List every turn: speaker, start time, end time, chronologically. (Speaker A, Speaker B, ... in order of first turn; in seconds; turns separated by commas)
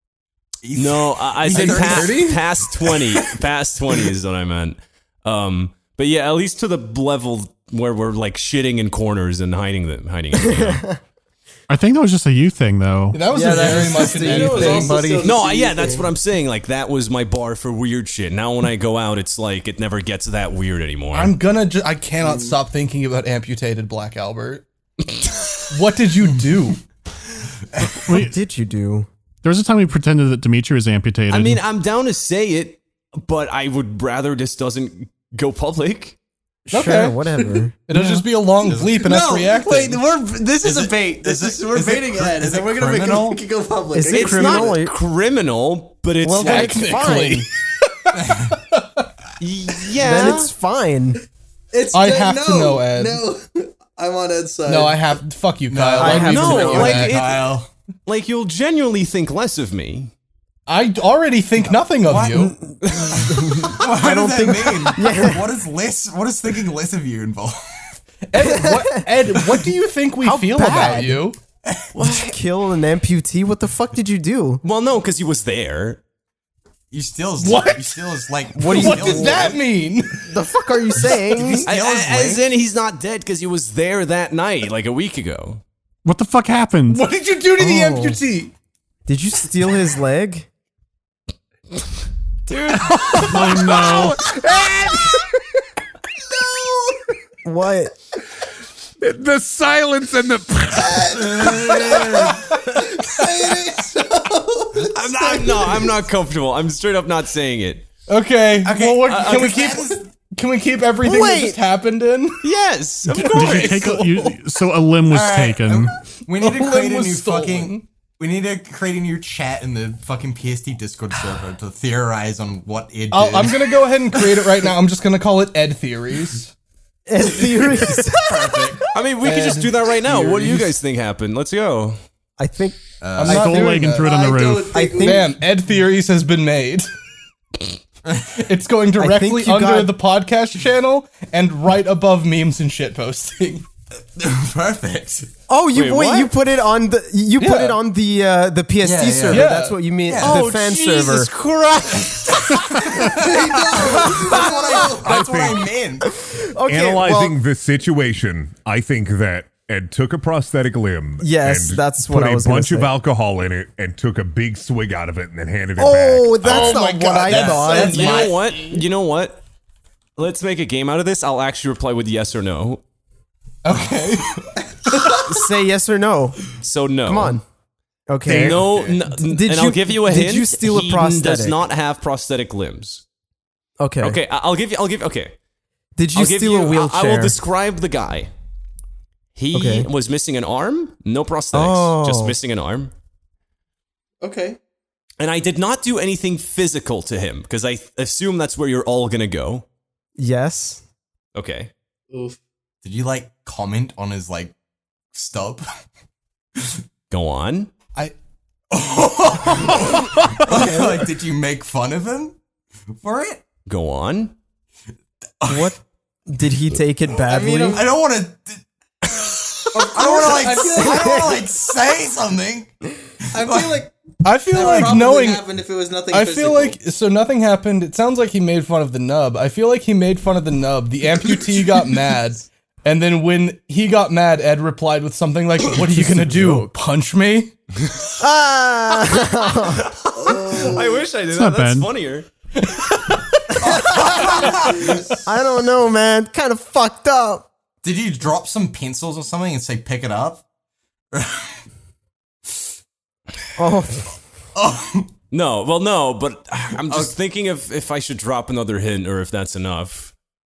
Speaker A: 0.6-3.4, Speaker B: 0.7-10.8, Speaker C: 1.4-2.4, Speaker D: 10.5-10.9, Speaker E: 11.7-13.2, Speaker C: 13.1-15.0, Speaker D: 13.3-15.4, Speaker F: 13.4-16.1, Speaker B: 15.1-21.3, Speaker C: 21.1-24.6, Speaker F: 22.2-22.6, Speaker B: 25.1-25.6, Speaker C: 25.7-26.8, Speaker E: 28.0-28.4, Speaker D: 28.1-29.1, Speaker E: 29.4-31.6, Speaker B: 31.3-36.2, Speaker D: 36.7-38.2, Speaker C: 36.7-37.3, Speaker C: 37.9-40.0, Speaker A: 38.6-39.0, Speaker F: 39.0-44.8, Speaker A: 40.6-43.4, Speaker D: 43.9-44.9, Speaker B: 44.1-47.2, Speaker D: 46.2-47.5, Speaker C: 46.4-49.0, Speaker A: 48.2-48.5, Speaker B: 49.4-50.5, Speaker D: 50.0-51.2, Speaker F: 51.7-55.0, Speaker C: 51.9-53.2, Speaker C: 54.6-57.2, Speaker A: 55.7-57.7, Speaker D: 56.0-57.1, Speaker B: 56.3-60.1, Speaker C: 60.7-62.5, Speaker A: 62.0-62.5, Speaker D: 62.4-65.5, Speaker A: 63.1-67.9, Speaker C: 68.3-71.4, Speaker D: 68.4-69.0, Speaker D: 70.2-71.2, Speaker B: 71.9-72.3, Speaker D: 72.0-74.6, Speaker B: 74.6-76.0, Speaker A: 76.9-79.6, Speaker C: 77.4-80.3, Speaker D: 78.5-79.6, Speaker D: 80.2-81.7, Speaker A: 81.2-82.5, Speaker B: 81.6-85.6, Speaker E: 86.0-87.0, Speaker C: 86.9-88.5, Speaker D: 87.6-88.2, Speaker D: 89.1-90.5, Speaker B: 92.5-93.4, Speaker E: 93.1-94.2, Speaker G: 93.2-95.2, Speaker D: 97.4-97.9, Speaker G: 99.0-101.8, Speaker F: 100.8-105.9, Speaker A: 101.4-102.2, Speaker B: 104.8-107.9, Speaker C: 108.1-112.4, Speaker A: 108.6-110.0, Speaker B: 109.1-109.4, Speaker D: 111.0-111.6, Speaker B: 112.4-113.9, Speaker C: 113.1-114.4, Speaker E: 113.2-115.9, Speaker A: 115.1-124.5, Speaker C: 116.3-117.8, Speaker C: 123.1-126.5, Speaker D: 127.1-128.9, Speaker A: 127.3-128.8, Speaker B: 128.9-132.0, Speaker C: 129.2-130.8, Speaker D: 132.4-133.8, Speaker A: 133.0-133.6, Speaker C: 133.2-134.1, Speaker E: 133.2-134.9, Speaker F: 133.5-135.3, Speaker D: 134.7-135.3, Speaker C: 134.9-136.9, Speaker A: 138.1-138.4, Speaker C: 138.4-143.7, Speaker D: 139.0-139.9, Speaker A: 144.1-145.3, Speaker D: 145.5-151.3, Speaker B: 145.7-146.3, Speaker C: 147.4-147.8, Speaker A: 148.8-150.5, Speaker C: 149.2-149.8, Speaker B: 150.2-152.5, Speaker A: 152.1-156.1, Speaker F: 153.1-155.2, Speaker D: 154.1-154.4, Speaker G: 155.0-155.7, Speaker D: 156.1-157.4, Speaker G: 156.6-166.5, Speaker D: 161.2-162.9, Speaker D: 165.8-168.2, Speaker C: 166.4-168.8, Speaker A: 166.5-168.3, Speaker B: 167.8-169.4, Speaker B: 170.2-172.8, Speaker C: 173.6-174.4, Speaker A: 173.7-174.5, Speaker D: 175.2-176.5, Speaker B: 176.6-177.4, Speaker D: 177.0-177.4, Speaker D: 178.1-181.6, Speaker B: 178.2-183.0, Speaker A: 178.3-179.0, Speaker D: 183.8-184.2, Speaker B: 184.0-185.3, Speaker D: 186.0-187.4, Speaker B: 186.1-188.3, Speaker B: 189.3-192.9, Speaker D: 189.5-189.9, Speaker D: 191.5-192.3, Speaker F: 194.2-194.6, Speaker B: 195.2-199.6, Speaker D: 200.2-200.8, Speaker B: 201.3-201.7, Speaker F: 202.1-202.4, Speaker A: 202.8-204.5, Speaker A: 205.1-205.7, Speaker B: 207.1-207.7, Speaker A: 208.7-212.4, Speaker D: 210.4-210.9, Speaker A: 213.0-213.4, Speaker B: 213.7-214.3, Speaker A: 215.4-215.7, Speaker D: 215.5-217.8, Speaker F: 217.2-217.9, Speaker A: 217.7-222.7, Speaker F: 219.7-221.4, Speaker D: 220.5-221.5, Speaker F: 223.3-223.9, Speaker A: 223.3-223.8, Speaker C: 224.2-225.4, Speaker F: 224.5-226.8, Speaker A: 224.6-225.0, Speaker C: 226.1-237.5, Speaker D: 236.2-236.6, Speaker D: 238.2-239.9, Speaker B: 239.5-242.3, Speaker F: 240.2-241.0, Speaker E: 241.3-241.9, Speaker C: 242.7-243.2, Speaker A: 243.6-244.9, Speaker D: 243.7-244.7, Speaker D: 245.2-247.5, Speaker A: 247.8-250.4, Speaker A: 251.1-251.6, Speaker D: 253.6-254.2, Speaker A: 254.5-255.1, Speaker B: 255.3-260.1, Speaker A: 256.9-257.1